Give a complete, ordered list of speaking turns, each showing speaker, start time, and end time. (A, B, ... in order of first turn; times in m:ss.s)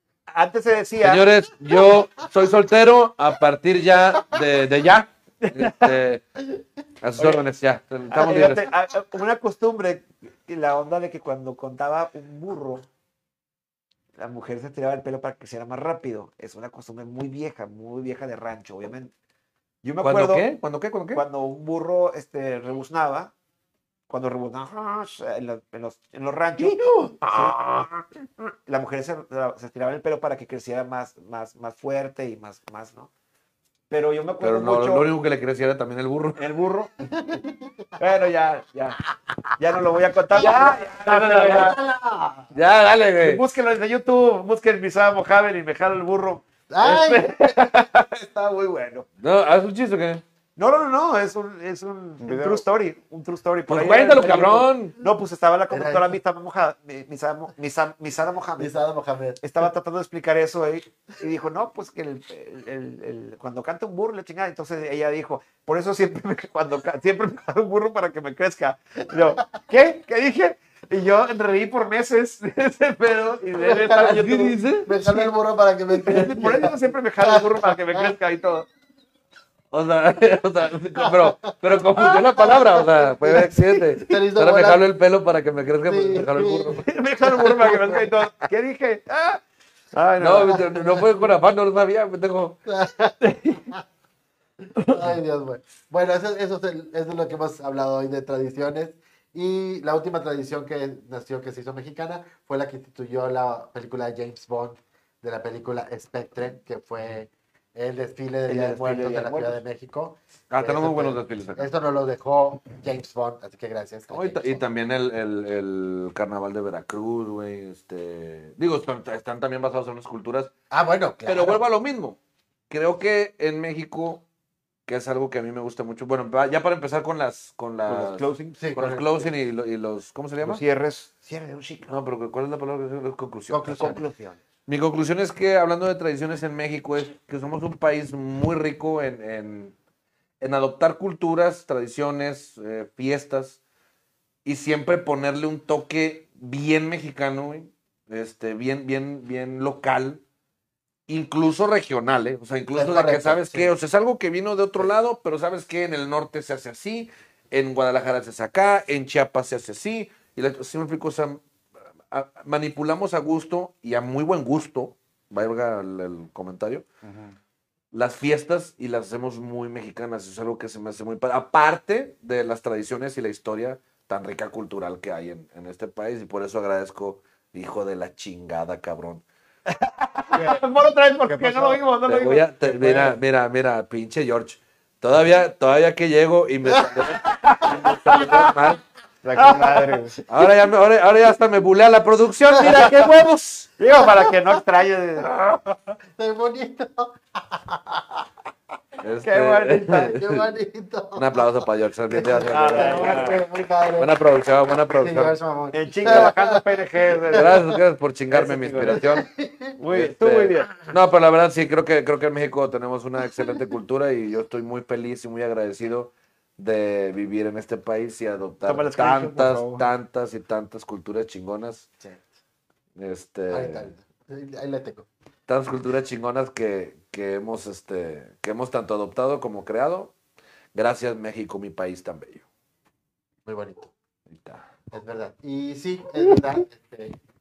0:00.3-0:01.3 A
0:01.0-0:06.2 B
0:05.4-0:05.9 A
0:07.0-0:08.7 B
0:07.2-0:07.4 A
0:08.1-0:12.8 A
0:14.2-0:19.1 A
0:19.8-0:20.5 A
0:20.0-0:21.2 B
0:21.2-0:23.3 A
0:24.1-0:27.6 A
0:26.6-0:27.9 B
0:28.2-0:33.1 A
0:33.9-0:35.1 A
0:34.4-0:36.4 B
0:36.4-0:36.9 A
0:37.1-0:37.7 C
0:38.0-0:39.0 A
0:39.6-0:41.8 A
0:40.3-0:41.8 B
0:40.3-0:42.5 C
0:42.5-0:43.4 B
0:43.2-0:49.1 A
0:46.7-0:47.6 C
0:49.2-0:50.2 B
0:50.6-0:58.7 A
0:52.2-0:52.7 D
0:53.7-0:54.9 B
0:55.7-0:56.1 C
0:58.6-0:59.4 C
0:59.4-1:14.5 A
1:13.6-1:18.2 C
1:13.9-1:15.3 B
1:16.1-1:16.5 B
1:16.1-1:18.7 A
1:19.7-1:26.8 B
1:21.0-1:23.5 C
1:23.3-1:23.8 A
1:24.0-1:24.8 C
1:25.8-1:28.1 C
1:26.8-1:29.4 A
1:29.9-1:30.7 A
1:30.2-1:32.6 B
1:30.2-1:31.3 C
1:32.7-1:33.8 C
1:33.2-1:33.6 A
1:34.8-1:54.6 C
1:48.5-1:49.6 A
1:50.5-1:51.7 B
1:54.1-2:00.5 B
2:00.7-2:01.6 C
2:01.3-2:02.2 B
2:02.7-2:04.2 B
2:04.9-2:10.6 B
2:07.9-2:08.6 A
2:08.6-2:09.3 C
2:10.4-2:12.0 A
2:11.9-2:14.0 B
2:13.5-2:14.0 C
2:13.7-2:14.4 A
2:14.7-2:19.8 B
2:20.4-2:23.6 B
2:24.4-2:30.2 B
2:31.1-2:41.4 B
2:32.7-2:33.7 C
2:42.1-2:46.8 B
2:47.0-2:47.4 D
2:47.9-2:59.2 B
2:59.7-3:03.2 A
3:00.3-3:00.6 D
3:01.3-3:01.8 D
3:02.1-3:08.8 B
3:06.7-3:07.1 C
3:07.3-3:08.7 A
3:09.2-3:10.2 D
3:09.4-3:10.0 A
3:10.3-3:13.7 B
3:12.6-3:12.9 C
3:13.8-3:15.3 A
3:14.0-3:14.3 C
3:15.6-3:18.2 C
3:19.0-3:20.4 B
3:19.2-3:20.1 A
3:19.9-3:21.5 C
3:21.2-3:23.4 B
3:22.1-3:24.2 C
3:22.4-3:23.4 A
3:24.0-3:25.4 B
3:25.0-3:26.7 C
3:25.7-3:27.6 A
3:27.3-3:27.8 C
3:27.3-3:29.3 B
3:28.3-3:29.0 A
3:28.9-3:29.8 C
3:29.8-3:30.7 A
3:29.9-3:41.9 B
3:38.6-3:39.9 A
3:43.0-3:43.9 B
3:43.5-3:45.1 C
3:45.5-3:50.1 B
3:50.7-3:52.5 B
3:53.5-3:53.9 C
3:54.3-3:54.6 B
3:54.9-3:57.2 C